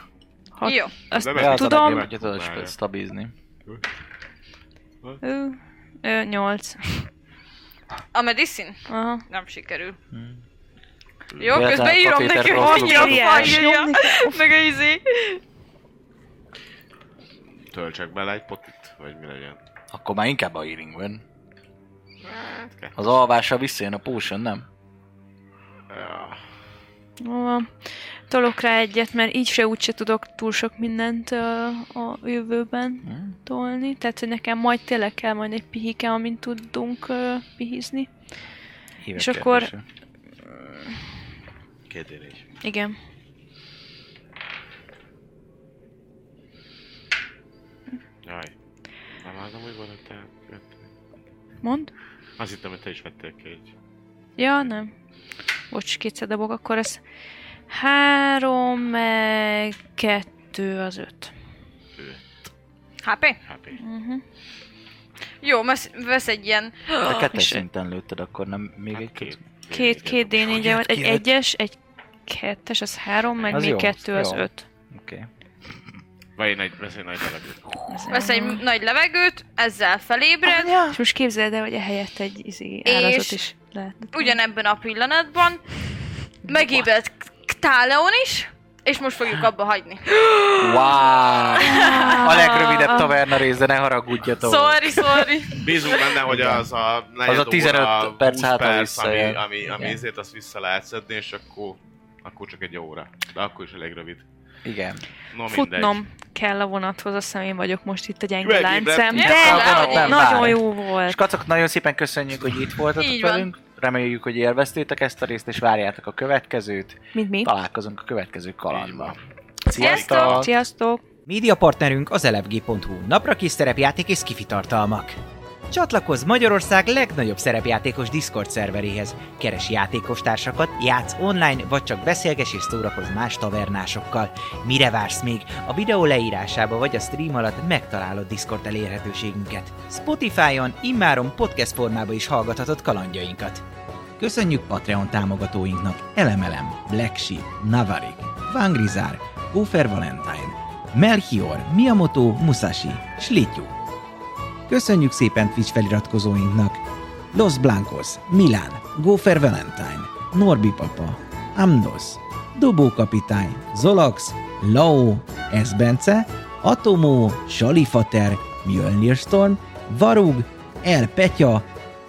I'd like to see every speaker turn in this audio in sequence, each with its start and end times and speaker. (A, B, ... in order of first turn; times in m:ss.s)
0:00.6-0:02.0 A
0:00.6-0:00.9 B
0:01.1-0:02.7 C
0:01.3-0:03.3 D
0:05.2-0:07.1 A
0:08.1-0:10.0 B
0:08.9-0:09.2 A
0:10.1-0:10.4 D
0:11.3-0:11.7 C
0:11.4-0:15.4 B
0:11.5-0:13.6 D
0:12.5-0:14.4 A
0:17.5-0:19.6 C
0:19.9-0:21.2 D
0:22.2-0:23.1 C
0:23.0-0:24.6 D
0:25.9-0:26.4 C
0:27.2-0:38.1 A
0:33.0-0:33.4 D
0:39.0-0:39.8 D
0:39.2-0:39.7 A
0:40.5-0:40.7 A
0:41.9-0:42.4 C
0:42.6-0:43.0 A
0:48.2-0:48.5 C
0:49.2-0:50.9 C
0:51.6-0:51.9 A
0:52.4-0:53.7 C
0:54.4-0:54.9 A
0:55.7-0:57.0 A
0:57.7-1:01.3 A
1:02.0-1:02.2 C
1:03.0-1:03.4 B
1:03.4-1:03.8 C
1:03.8-1:04.2 A
1:05.4-1:06.9 B
1:07.0-1:09.4 D
1:07.0-1:07.6 A
1:08.9-1:10.8 C
1:09.7-1:14.6 A
1:10.5-1:11.3 D
1:13.4-1:13.7 C
1:13.5-1:15.3 D
1:16.4-1:17.8 C
1:17.9-1:18.6 A
1:18.1-1:20.8 B
1:20.5-1:21.0 D
1:20.8-1:24.4 A
1:22.8-1:23.4 B
1:24.1-1:25.8 B
1:26.4-1:32.4 B
1:30.6-1:35.2 D
1:31.7-1:33.2 A
1:34.4-1:36.0 B
1:35.6-1:44.2 C
1:36.2-1:36.6 D
1:37.2-1:40.0 D
1:44.6-1:45.0 D
1:45.3-1:46.0 C
1:45.5-1:51.2 A
1:48.4-1:50.0 C
1:49.1-1:50.5 B
1:49.2-1:59.2 D
1:53.0-1:53.5 B
1:57.1-1:57.5 A
1:58.7-1:59.2 C
1:59.7-2:00.5 D
1:59.7-2:01.0 A
1:59.8-2:00.4 B
1:59.8-2:00.5 C
2:01.2-2:05.2 E
2:05.7-2:23.6 E
2:24.2-2:33.7 E
2:34.7-2:51.6 E